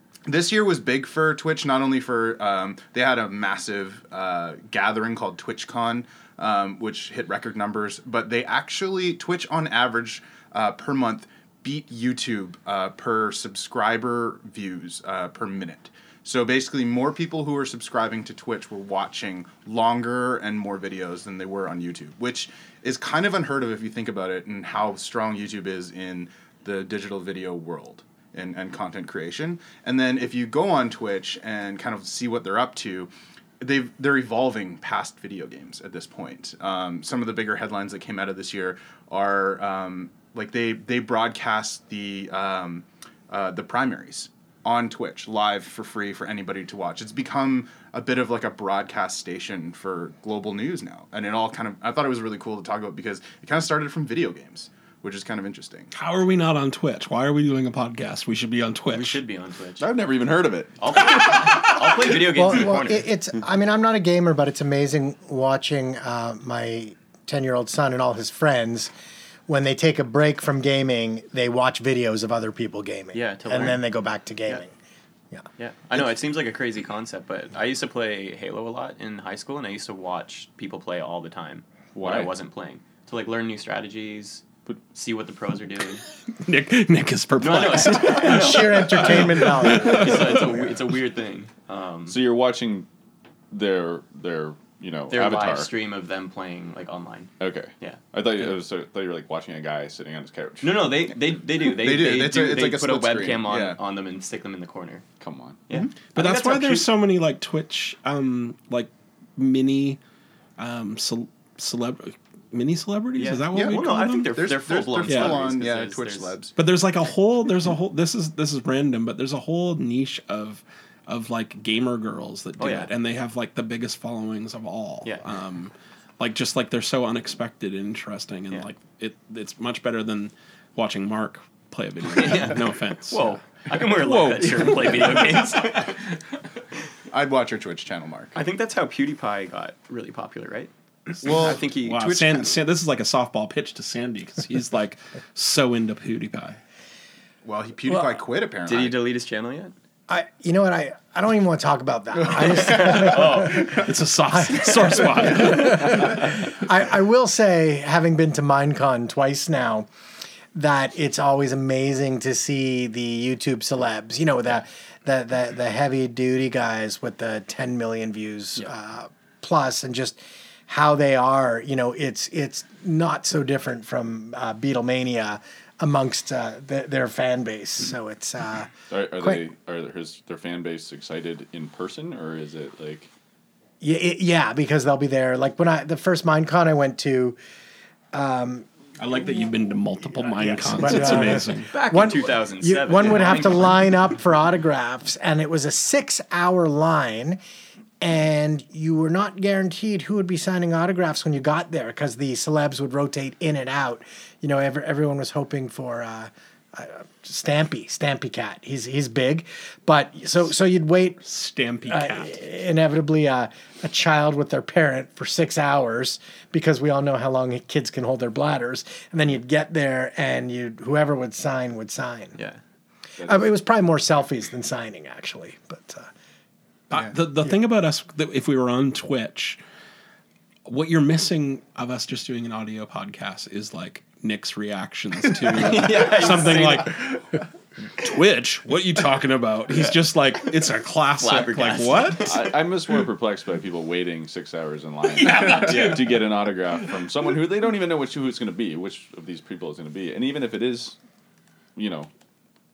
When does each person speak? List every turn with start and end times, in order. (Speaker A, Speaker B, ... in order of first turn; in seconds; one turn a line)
Speaker A: 0.3-55.9
Speaker B: 55.9-59.2
Speaker C: 58.9-59.9
Speaker D: 59.8-61.6
Speaker C: 60.8-63.1
Speaker B: 61.1-61.5
Speaker E: 62.3-68.9
Speaker E: 69.5-74.7
Speaker C: 73.1-73.8
Speaker C: 75.6-86.0
Speaker D: 81.9-82.3
Speaker B: 86.4-90.4
Speaker C: 87.4-92.2
Speaker E: 88.0-90.6
Speaker D: 92.1-92.9
Speaker D: 93.5-95.7
Speaker C: 95.1-98.0
Speaker D: 97.4-101.1
Speaker C: 100.6-105.0
Speaker A: 101.8-103.8
Speaker D: 105.2-105.6
Speaker C: 105.7-106.9
Speaker B: 106.1-110.0
Speaker B: 110.6-114.4
Speaker C: 113.2-116.4
Speaker A: 113.5-116.5
Speaker B: 115.0-115.4
Speaker B: 116.5-135.9
Speaker C: 122.6-122.9
Speaker C: 132.1-136.0
Speaker A: 137.1-138.4
Speaker C: 138.3-140.7
Speaker C: 141.2-142.6
Speaker A: 141.2-141.6
Speaker B: 141.3-146.6
Speaker A: 147.4-149.0
Speaker C: 148.6-149.7
Speaker E: 150.1-159.9
Speaker C: 152.8-153.7
Speaker B: 153.2-156.3
Speaker E: 160.5-179.4
Speaker D: 178.9-183.1
Speaker E: 183.8-187.4
Speaker E: 188.1-188.7
Speaker B: 189.0-191.7
Speaker E: 190.2-197.4
Speaker C: 191.0-193.9
Speaker E: 198.0-211.2
Speaker B: 211.2-212.4
Speaker E: 211.9-222.3
Speaker C: 222.3-222.6
Speaker D: 223.2-223.6
Speaker E: 223.2-226.1
Speaker B: 226.9-229.6
Speaker B: 230.7-237.4
Speaker C: 235.5-237.1
Speaker B: 238.0-242.4
Speaker C: 241.2-242.6
Speaker D: 242.2-251.0
Speaker B: 245.1-246.2
Speaker C: 245.5-246.1
Speaker D: 251.8-252.1